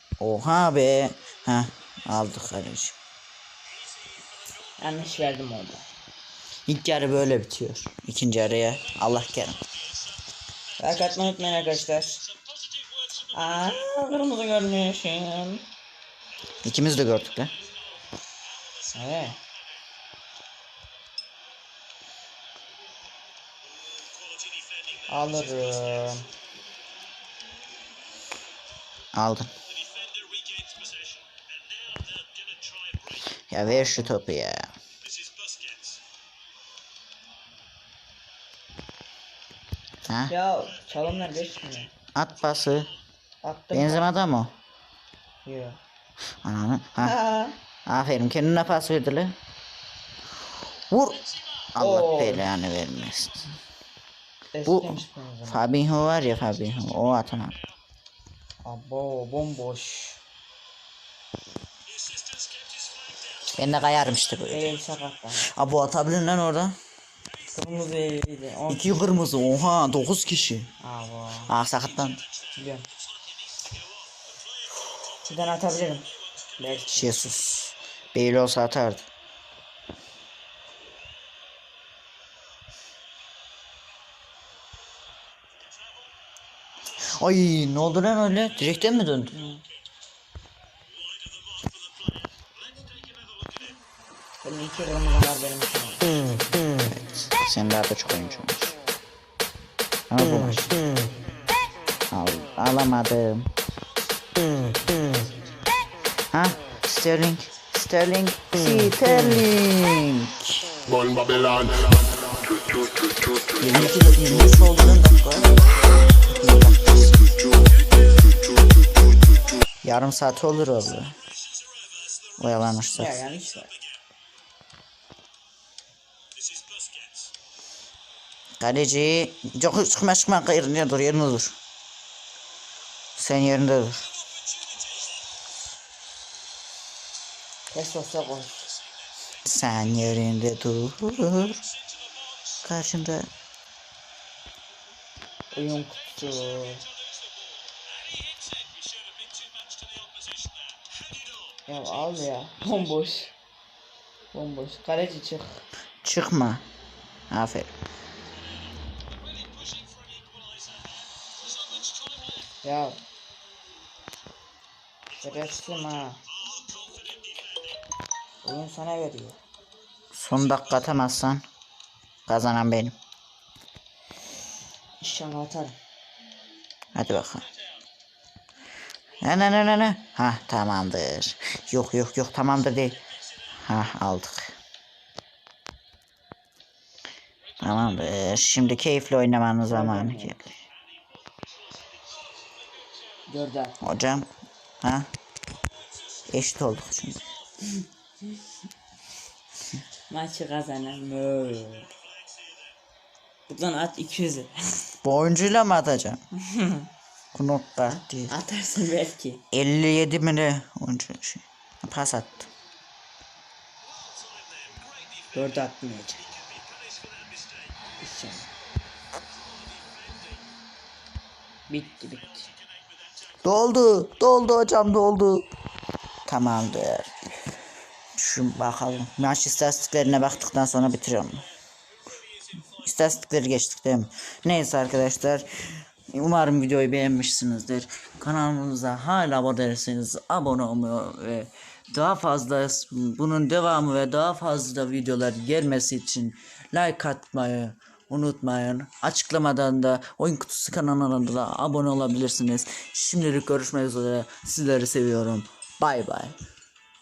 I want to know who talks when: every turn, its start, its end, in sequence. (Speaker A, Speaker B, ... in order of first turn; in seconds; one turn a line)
Speaker A: 0.2-3.0
Speaker B: 4.8-5.9
Speaker A: 6.7-9.6
Speaker B: 10.8-12.2
Speaker B: 13.3-15.7
Speaker A: 16.6-17.5
Speaker B: 18.9-19.4
Speaker B: 25.1-26.3
Speaker A: 29.1-29.5
Speaker A: 33.5-34.7
Speaker B: 33.6-34.1
Speaker A: 40.1-40.3
Speaker B: 40.3-41.9
Speaker A: 42.1-42.9
Speaker B: 43.4-44.1
Speaker A: 43.7-44.5
Speaker B: 45.5-45.8
Speaker A: 46.4-47.2
Speaker B: 47.0-47.6
Speaker A: 47.9-49.4
Speaker A: 50.9-53.5
Speaker B: 51.8-52.5
Speaker B: 54.5-55.6
Speaker A: 54.7-57.6
Speaker B: 58.6-60.2
Speaker A: 63.5-64.7
Speaker B: 64.5-65.5
Speaker A: 65.4-66.8
Speaker B: 67.5-69.1
Speaker A: 68.7-70.7
Speaker B: 70.8-71.5
Speaker A: 71.5-72.2
Speaker B: 72.6-72.9
Speaker B: 75.2-77.2
Speaker A: 77.0-79.0
Speaker A: 87.0-89.3
Speaker B: 89.3-89.6
Speaker B: 94.4-96.5
Speaker A: 96.8-98.8
Speaker A: 100.1-100.8
Speaker A: 102.1-103.5
Speaker A: 106.3-110.7
Speaker A: 111.4-111.8
Speaker A: 113.6-115.5
Speaker A: 116.3-117.3
Speaker A: 119.8-121.2
Speaker A: 122.4-123.2
Speaker B: 122.9-123.8
Speaker A: 128.6-131.6
Speaker A: 133.2-134.1
Speaker B: 137.7-138.7
Speaker A: 139.4-141.7
Speaker A: 142.6-143.3
Speaker B: 145.5-146.9
Speaker B: 151.7-153.4
Speaker B: 154.3-155.7
Speaker A: 156.0-156.6
Speaker A: 157.3-157.7
Speaker B: 162.6-163.0
Speaker B: 165.2-166.2
Speaker B: 168.4-169.4
Speaker A: 170.1-171.4
Speaker A: 172.3-172.9
Speaker B: 175.0-175.8
Speaker A: 176.9-177.5
Speaker A: 179.2-184.6
Speaker A: 187.6-190.5
Speaker B: 189.7-190.4
Speaker B: 193.3-193.8
Speaker A: 193.8-195.1
Speaker A: 196.3-197.2
Speaker B: 200.1-201.9
Speaker B: 203.5-204.8
Speaker A: 205.0-206.2
Speaker B: 206.4-206.9
Speaker A: 207.3-208.3
Speaker B: 208.3-209.4
Speaker A: 209.5-212.5
Speaker B: 215.3-216.3
Speaker B: 218.0-218.5
Speaker B: 221.7-222.5
Speaker A: 223.4-225.5
Speaker A: 226.3-227.1
Speaker A: 228.2-231.5
Speaker A: 232.8-256.4